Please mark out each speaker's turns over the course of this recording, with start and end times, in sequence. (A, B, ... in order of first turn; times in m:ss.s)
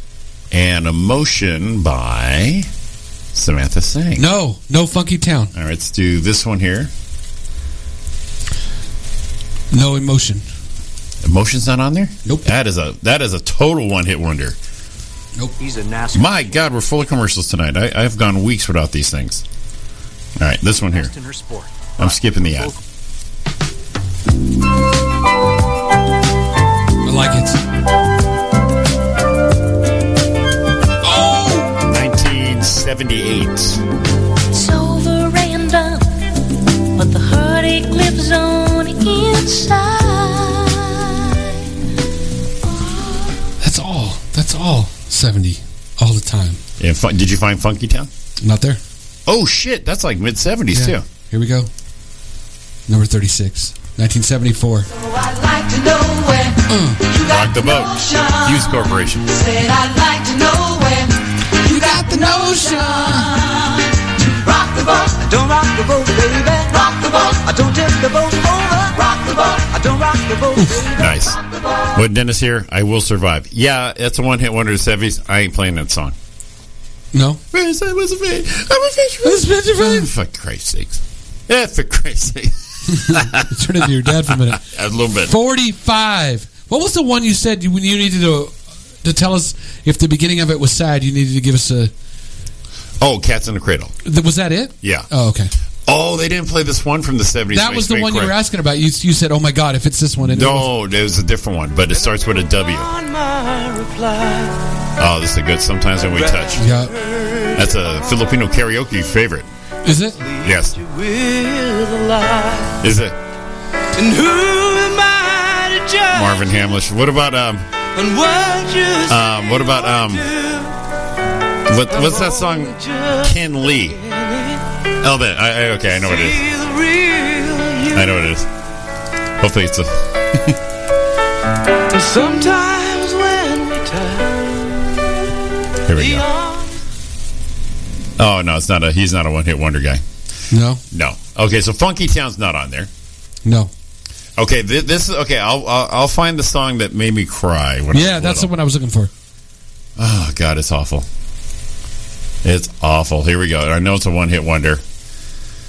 0:00.5-0:02.7 A
0:03.3-0:04.3 A
0:04.2-0:05.5 B
0:05.5-0:06.9 A
0:09.7-0:10.4 B
0:11.2-0:14.6 A
0:15.6-0:16.6 C
0:16.1-0:19.4 A
0:20.4-0:21.1 A
0:20.9-0:22.8 C
0:22.0-0:22.7 A
0:27.0-0:27.6 B
0:31.0-0:31.7 B
0:31.9-0:33.8 A
0:34.5-0:36.1 D
0:37.0-0:41.4 D
0:43.6-0:46.6 B
0:46.8-0:48.1 A
0:48.4-0:48.8 B
0:49.3-0:51.0 A
0:50.7-0:51.7 B
0:52.9-0:54.9 B
0:55.0-0:58.7 E
0:56.7-0:57.0 B
0:57.2-0:59.3 A
0:59.3-1:11.0 E
1:01.7-1:03.3 B
1:10.6-1:10.9 B
1:11.0-1:11.4 A
1:11.9-1:16.2 A
1:17.1-1:17.4 B
1:17.5-1:25.3 A
1:19.2-1:20.1 B
1:22.9-1:24.6 B
1:25.3-1:31.9 B
1:33.0-1:34.0 A
1:34.0-1:35.5 B
1:34.8-1:35.1 A
1:35.9-1:38.4 A
1:37.5-1:40.7 B
1:40.2-1:42.9 A
1:41.9-1:44.6 E
1:45.0-1:46.6 A
1:46.1-1:47.8 E
1:46.6-1:46.9 B
1:47.5-1:49.5 A
1:49.8-1:50.2 B
1:50.2-1:52.8 E
1:50.4-1:50.8 A
1:52.8-1:53.2 A
1:54.0-1:56.6 E
1:56.1-1:57.7 A
1:57.9-2:00.8 E
1:59.1-2:00.3 A
2:01.7-2:04.0 A
2:01.9-2:04.6 E
2:05.0-2:06.4 A
2:06.0-2:08.2 E
2:07.9-2:08.5 A
2:09.4-2:10.6 A
2:11.9-2:14.4 E
2:15.9-2:16.3 A
2:15.9-2:16.8 E
2:18.2-2:20.0 A
2:20.5-2:20.8 B
2:20.9-2:22.9 A
2:23.4-2:23.7 B
2:24.4-2:28.5 A
2:27.9-2:29.1 B
2:30.0-2:31.1 A
2:32.4-2:34.8 A